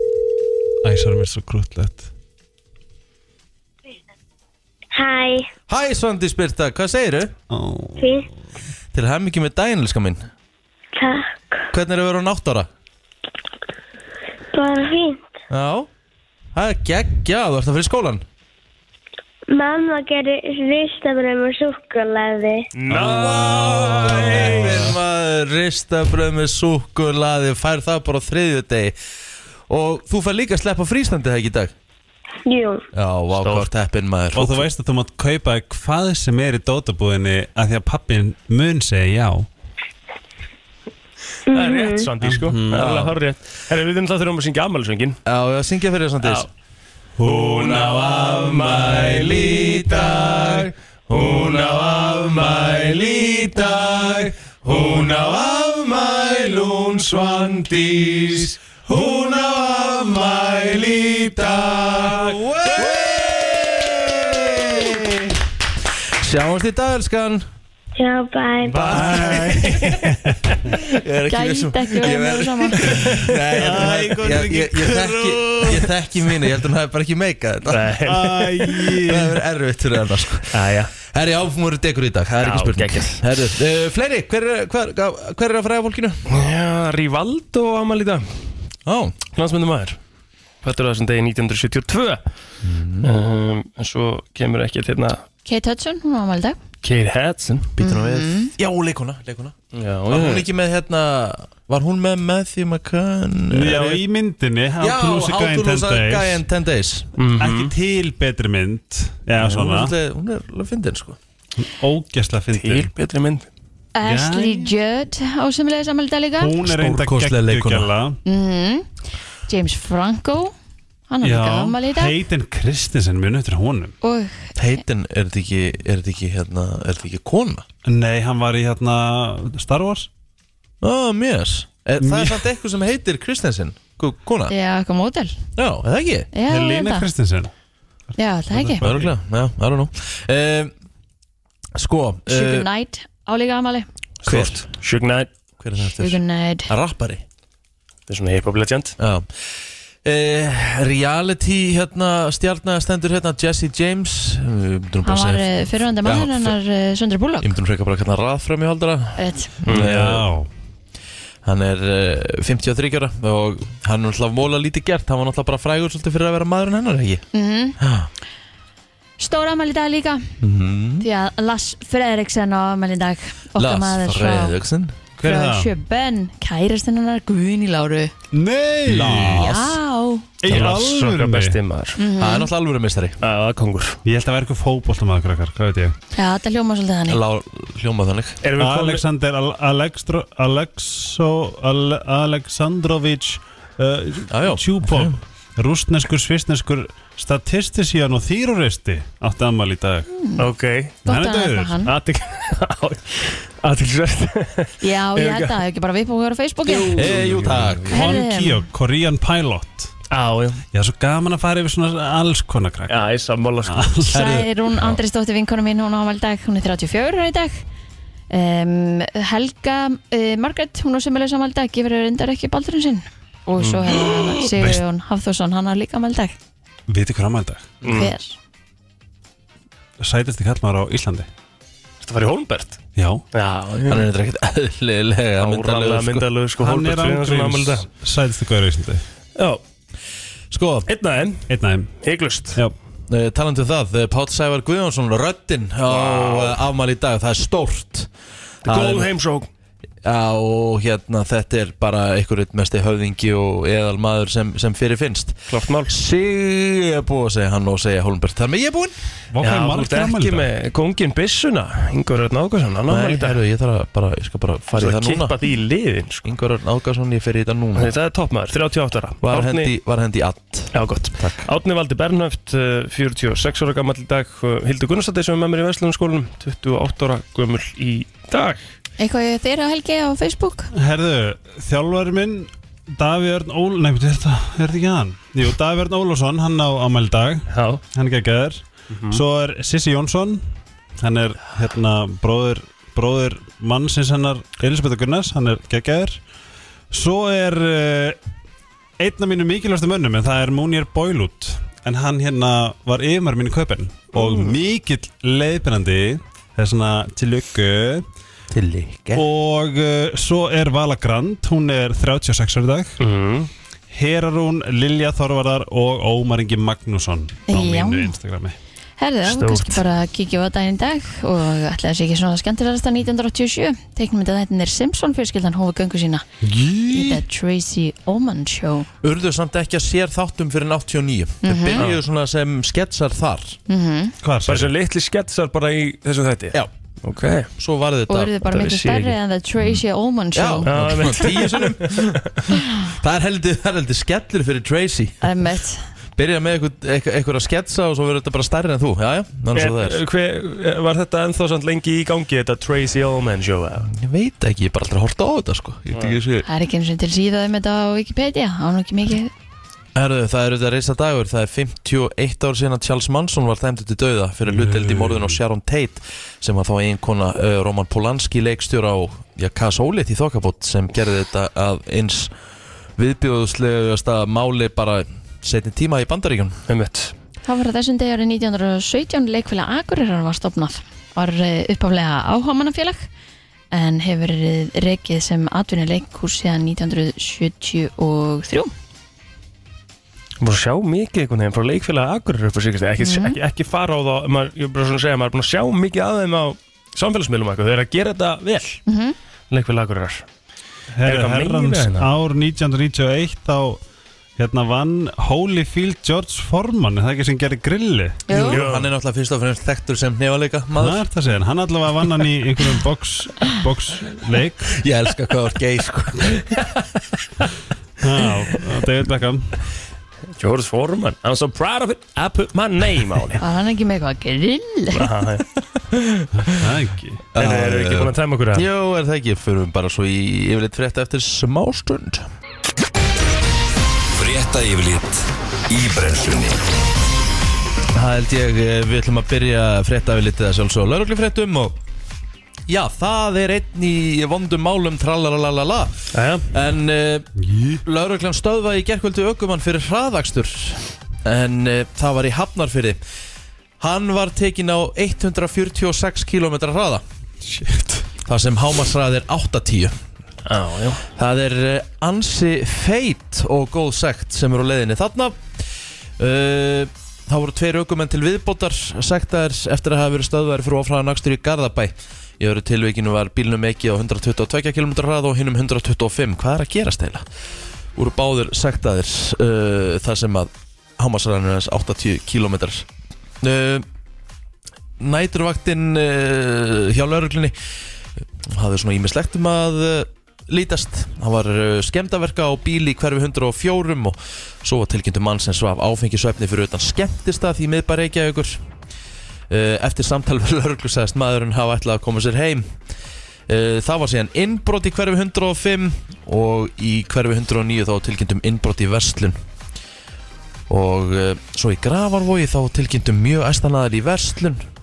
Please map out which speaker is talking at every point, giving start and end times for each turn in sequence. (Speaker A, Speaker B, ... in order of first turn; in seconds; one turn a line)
Speaker A: 0.8-2.1
Speaker B: 4.9-5.5
Speaker C: 5.7-7.3
Speaker A: 7.5-8.1
Speaker B: 8.0-8.3
Speaker C: 8.9-10.2
Speaker B: 10.9-11.6
Speaker C: 11.7-12.7
Speaker B: 14.5-15.3
Speaker C: 15.5-15.9
Speaker C: 16.5-18.2
Speaker B: 19.5-22.7
Speaker D: 22.7-24.9
Speaker C: 22.9-28.9
Speaker A: 23.1-24.9
Speaker C: 29.7-31.7
Speaker B: 32.5-32.8
Speaker C: 32.9-34.7
Speaker D: 33.4-33.7
Speaker A: 34.3-39.5
Speaker B: 41.5-42.1
Speaker D: 41.5-45.2
Speaker A: 42.2-42.9
Speaker C: 42.7-43.1
Speaker C: 45.2-46.5
Speaker D: 46.2-46.5
Speaker D: 47.2-58.3
Speaker A: 47.2-47.9
Speaker C: 48.7-51.5
Speaker A: 53.9-54.1
Speaker A: 54.9-55.2
Speaker A: 58.9-62.2
Speaker C: 61.9-65.0
Speaker A: 64.4-65.3
Speaker C: 66.2-67.4
Speaker B: 68.0-69.2
Speaker D: 68.6-70.1
Speaker A: 68.8-70.6
Speaker C: 70.7-78.0
Speaker E: 71.3-72.8
Speaker A: 72.9-75.9
Speaker D: 77.7-78.9
Speaker A: 78.0-79.4
Speaker C: 79.0-86.2
Speaker D: 80.5-80.9
Speaker D: 82.4-83.2
Speaker D: 86.3-88.2
Speaker C: 88.8-89.2
Speaker D: 89.3-90.0
Speaker D: 90.6-92.2
Speaker C: 92.6-93.1
Speaker D: 93.0-95.2
Speaker E: 95.5-96.6
Speaker D: 96.8-97.7
Speaker C: 97.8-99.5
Speaker E: 97.8-98.5
Speaker D: 99.7-100.5
Speaker C: 100.1-104.0
Speaker A: 103.5-106.4
Speaker C: 104.8-107.1
Speaker D: 107.2-107.7
Speaker A: 107.4-109.9
Speaker C: 109.4-111.2
Speaker A: 111.6-112.9
Speaker D: 112.5-113.5
Speaker E: 113.9-116.5
Speaker A: 114.0-114.7
Speaker A: 116.4-118.2
Speaker C: 116.6-117.9
Speaker E: 118.2-118.9
Speaker E: 119.5-120.5
Speaker E: 121.1-122.1
Speaker A: 121.2-123.9
Speaker E: 124.0-124.5
Speaker C: 124.6-127.6
Speaker A: 127.8-130.1
Speaker C: 130.8-134.5
Speaker A: 132.0-132.4
Speaker E: 134.5-135.3
Speaker C: 135.6-136.3
Speaker E: 136.3-137.1
Speaker A: 136.4-137.5
Speaker E: 138.2-138.8
Speaker A: 138.5-139.1
Speaker C: 138.8-140.7
Speaker C: 141.8-142.7
Speaker E: 142.3-143.8
Speaker D: 144.2-145.3
Speaker C: 144.2-144.6
Speaker C: 145.6-147.2
Speaker E: 146.0-146.7
Speaker D: 148.1-148.9
Speaker C: 149.0-149.3
Speaker C: 150.0-156.6
Speaker E: 155.0-157.5
Speaker C: 157.4-160.3
Speaker E: 159.2-159.5
Speaker D: 159.6-159.9
Speaker A: 159.7-160.5
Speaker C: 161.4-167.2
Speaker E: 167.3-167.8
Speaker C: 167.8-168.1
Speaker E: 169.2-170.3
Speaker C: 170.4-171.1
Speaker E: 171.0-174.5
Speaker C: 173.6-175.0
Speaker A: 175.2-175.7
Speaker E: 175.2-178.1
Speaker A: 178.3-179.8
Speaker C: 178.8-179.5
Speaker E: 179.3-180.3
Speaker A: 180.4-181.6
Speaker D: 180.5-182.0
Speaker E: 182.0-182.5
Speaker C: 182.2-183.2
Speaker D: 183.2-184.0
Speaker A: 184.0-185.9
Speaker E: 186.1-187.2
Speaker C: 187.1-188.4
Speaker D: 188.4-189.0
Speaker A: 188.6-200.1
Speaker C: 194.3-195.2
Speaker E: 200.1-200.4
Speaker D: 200.4-201.0
Speaker A: 201.0-201.8
Speaker E: 201.0-201.9
Speaker D: 201.8-205.6
Speaker E: 204.8-207.1
Speaker A: 206.8-209.9
Speaker C: 206.9-208.2
Speaker E: 207.9-208.6
Speaker D: 210.1-210.6
Speaker A: 210.7-213.0
Speaker D: 212.9-213.9
Speaker A: 213.7-214.1
Speaker C: 214.1-214.5
Speaker E: 214.1-217.6
Speaker E: 218.3-226.3
Speaker D: 223.6-224.1
Speaker A: 224.4-224.8
Speaker A: 226.9-227.7
Speaker D: 227.8-228.1
Speaker E: 227.8-228.4
Speaker A: 230.0-231.3
Speaker D: 232.0-232.8
Speaker A: 233.0-233.2
Speaker D: 233.3-234.1
Speaker C: 233.8-236.2
Speaker D: 235.4-237.9
Speaker A: 236.6-239.0
Speaker D: 239.3-239.6
Speaker C: 240.5-240.9
Speaker D: 240.9-241.5
Speaker A: 241.5-241.9
Speaker D: 242.0-242.6
Speaker C: 243.1-248.1
Speaker D: 245.9-246.6
Speaker C: 248.6-249.1
Speaker D: 248.6-249.5
Speaker C: 250.0-258.9
Speaker D: 255.5-255.9
Speaker A: 259.3-260.5
Speaker D: 259.4-263.4
Speaker C: 262.9-265.4
Speaker D: 264.7-266.3
Speaker C: 266.2-267.9
Speaker D: 267.7-269.7
Speaker C: 269.2-271.4
Speaker D: 270.7-278.6
Speaker E: 279.0-280.7
Speaker A: 280.7-290.4
Speaker D: 287.5-287.8
Speaker D: 288.9-289.2
Speaker A: 291.0-296.2
Speaker A: 296.9-298.2
Speaker A: 299.0-308.0
Speaker C: 308.5-309.2
Speaker A: 309.1-312.9
Speaker D: 313.0-313.5
Speaker A: 313.9-318.6
Speaker E: 317.5-318.1
Speaker E: 319.0-326.2
Speaker D: 319.2-319.8
Speaker A: 326.4-327.2
Speaker E: 326.9-328.9
Speaker C: 329.0-333.6
Speaker E: 331.4-331.8
Speaker E: 333.7-334.1
Speaker A: 334.2-334.7
Speaker D: 334.5-337.5
Speaker C: 337.6-338.3
Speaker E: 338.1-340.7
Speaker D: 338.4-339.2
Speaker C: 340.3-345.3
Speaker D: 340.6-342.3
Speaker E: 345.2-345.8
Speaker C: 346.1-350.0
Speaker D: 349.5-353.9
Speaker C: 353.9-356.5
Speaker E: 356.4-359.3
Speaker C: 359.9-372.3
Speaker A: 364.8-365.2
Speaker C: 373.0-376.6
Speaker D: 376.7-377.1
Speaker E: 377.4-383.1
Speaker E: 383.7-388.7
Speaker D: 390.4-398.8
Speaker E: 393.0-393.4
Speaker E: 398.9-399.1
Speaker D: 399.5-400.2
Speaker A: 400.9-403.8
Speaker D: 401.0-402.1
Speaker A: 404.4-408.2
Speaker E: 408.3-408.6
Speaker C: 408.3-411.0
Speaker D: 408.5-408.9
Speaker A: 410.8-414.8
Speaker C: 414.8-416.6
Speaker A: 418.0-419.5
Speaker D: 420.4-423.4
Speaker E: 423.4-425.1
Speaker D: 424.9-425.4
Speaker C: 425.9-426.3
Speaker A: 426.4-427.2
Speaker D: 427.3-428.7
Speaker C: 427.3-432.3
Speaker F: 434.1-436.6
Speaker C: 437.9-441.8
Speaker C: 442.7-445.9
Speaker D: 446.1-446.4
Speaker C: 446.5-447.3
Speaker A: 447.4-447.8
Speaker C: 447.8-453.0
Speaker C: 453.8-457.0
Speaker A: 457.4-458.1
Speaker C: 458.2-459.9
Speaker D: 460.4-461.0
Speaker C: 461.1-465.4
Speaker C: 466.2-477.2
Speaker C: 477.9-482.9
Speaker C: 483.4-483.9
Speaker C: 485.0-487.5
Speaker C: 488.4-498.6
Speaker C: 499.5-502.7
Speaker C: 503.5-509.4
Speaker C: 510.7-514.6